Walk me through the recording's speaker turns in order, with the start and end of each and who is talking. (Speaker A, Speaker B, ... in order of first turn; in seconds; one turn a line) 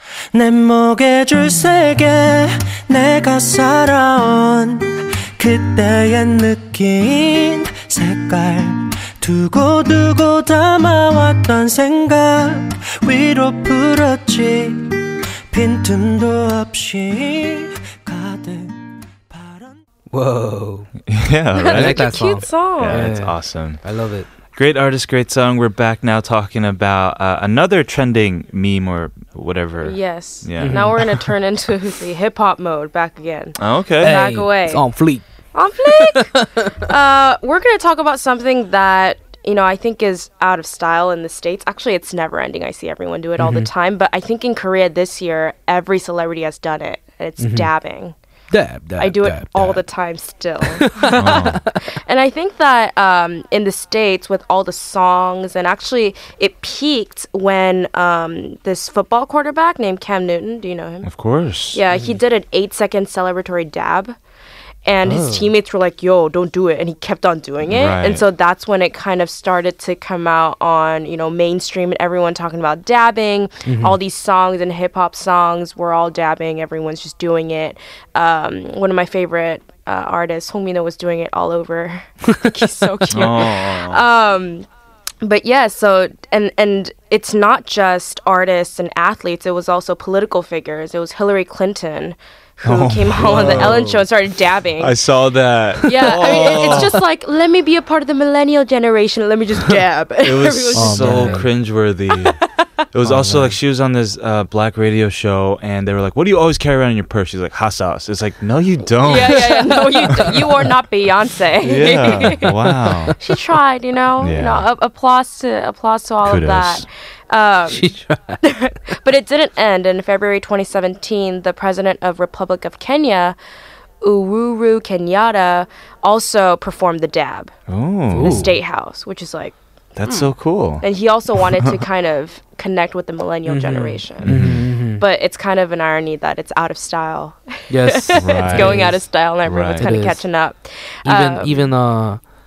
Speaker A: 0.3-19.8
Speaker B: 20.1-20.9
Speaker C: 21.1-23.8
Speaker D: 21.6-23.1
Speaker B: 21.7-24.3
Speaker C: 24.5-31.1
Speaker D: 29.8-34.8
Speaker B: 30.6-31.2
Speaker C: 33.6-34.2
Speaker B: 34.0-35.2
Speaker D: 35.5-48.1
Speaker B: 35.9-36.8
Speaker B: 43.4-43.7
Speaker B: 47.4-47.7
Speaker B: 48.5-49.8
Speaker D: 49.0-51.5
Speaker B: 50.7-51.5
Speaker C: 51.1-51.6
Speaker D: 52.0-61.1
Speaker C: 61.0-61.8
Speaker D: 61.7-64.2
Speaker B: 61.9-62.2
Speaker D: 64.8-84.7
Speaker B: 65.0-65.5
Speaker C: 67.6-68.2
Speaker B: 73.7-74.0
Speaker C: 83.1-84.0
Speaker D: 85.2-95.0
Speaker C: 92.6-93.9
Speaker B: 93.2-94.0
Speaker C: 94.8-97.0
Speaker D: 95.8-101.4
Speaker B: 96.1-96.5
Speaker C: 100.2-102.4
Speaker B: 100.7-101.5
Speaker C: 102.9-110.5
Speaker B: 103.0-103.6
Speaker D: 109.0-112.5
Speaker C: 111.6-113.2
Speaker B: 112.3-113.1
Speaker D: 113.2-123.3
Speaker C: 114.2-114.7
Speaker C: 116.2-116.8
Speaker B: 117.7-118.4
Speaker D: 124.0-127.5
Speaker C: 127.7-128.5
Speaker B: 128.1-128.5
Speaker D: 128.2-129.6
Speaker C: 129.9-130.8
Speaker D: 130.8-141.7
Speaker C: 131.4-131.7
Speaker B: 133.4-135.0
Speaker C: 134.2-134.7
Speaker B: 137.7-139.0
Speaker C: 138.2-138.8
Speaker C: 139.4-139.9
Speaker B: 139.8-140.2
Speaker B: 141.0-142.2